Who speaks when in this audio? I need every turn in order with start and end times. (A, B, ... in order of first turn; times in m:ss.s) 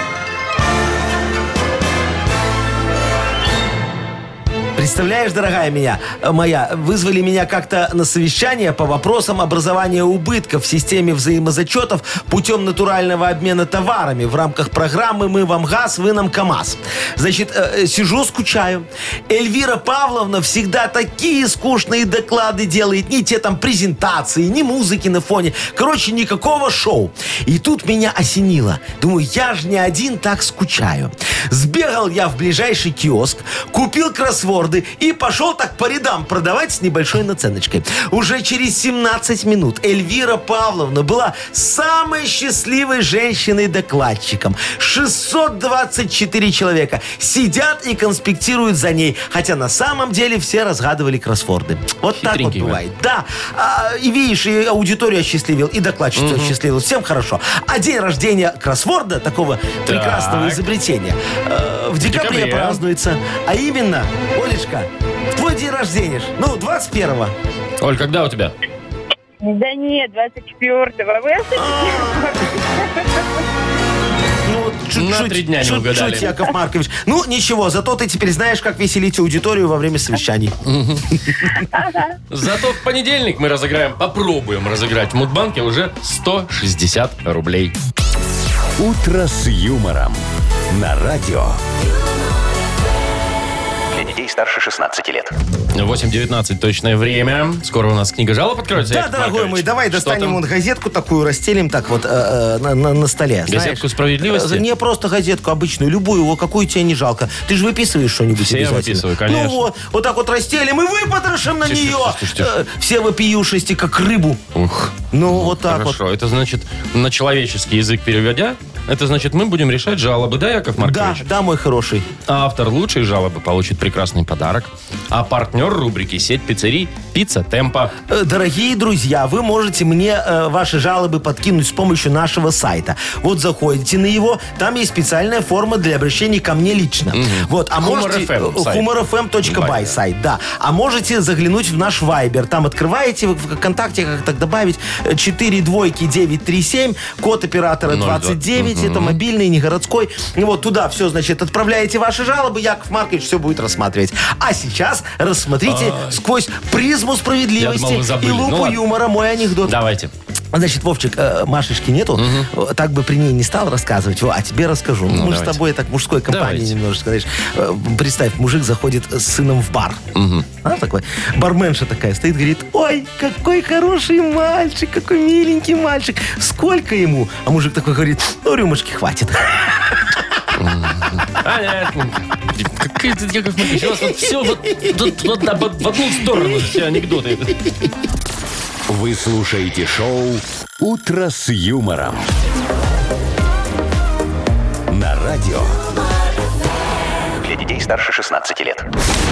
0:04.8-1:07.3 A
0:52.2-0:52.8 B
0:56.2-0:56.6 B
0:59.8-1:00.6 B
1:02.0-1:02.8 B
1:07.8-1:08.6 B
1:09.4-1:13.2 C
1:11.6-1:12.3 A
1:14.4-1:20.6 A
1:15.0-1:16.3 B
1:20.6-1:21.1 B
1:21.1-1:21.5 A
1:21.7-1:22.1 C
1:22.3-1:27.8 B
1:28.8-1:31.6 D
1:33.9-1:35.3 E
1:35.7-1:40.4 B
1:38.8-1:54.4 A
1:43.5-1:44.7 B
1:48.4-1:49.6 B
1:51.6-1:52.6 B
1:54.6-2:01.3 B
1:55.1-1:56.0 A
2:00.8-2:02.1 A
2:02.3-2:07.9 B
2:08.1-2:39.8 A
2:17.1-2:18.9 B
2:19.4-2:20.0 B
2:27.9-2:29.2 B
2:35.6-2:36.2 B
2:37.6-2:38.8 B
2:39.6-2:40.1 B
2:40.5-2:50.0 A
2:42.2-2:42.5 B
2:45.1-2:45.6 B
2:46.3-2:46.8 B
2:50.2-2:50.5 B
2:50.6-3:00.2 A
3:00.6-3:07.6 B
3:03.7-3:05.0 A
3:08.9-3:12.3 D
3:14.9-3:15.8 D
3:17.4-3:18.8 E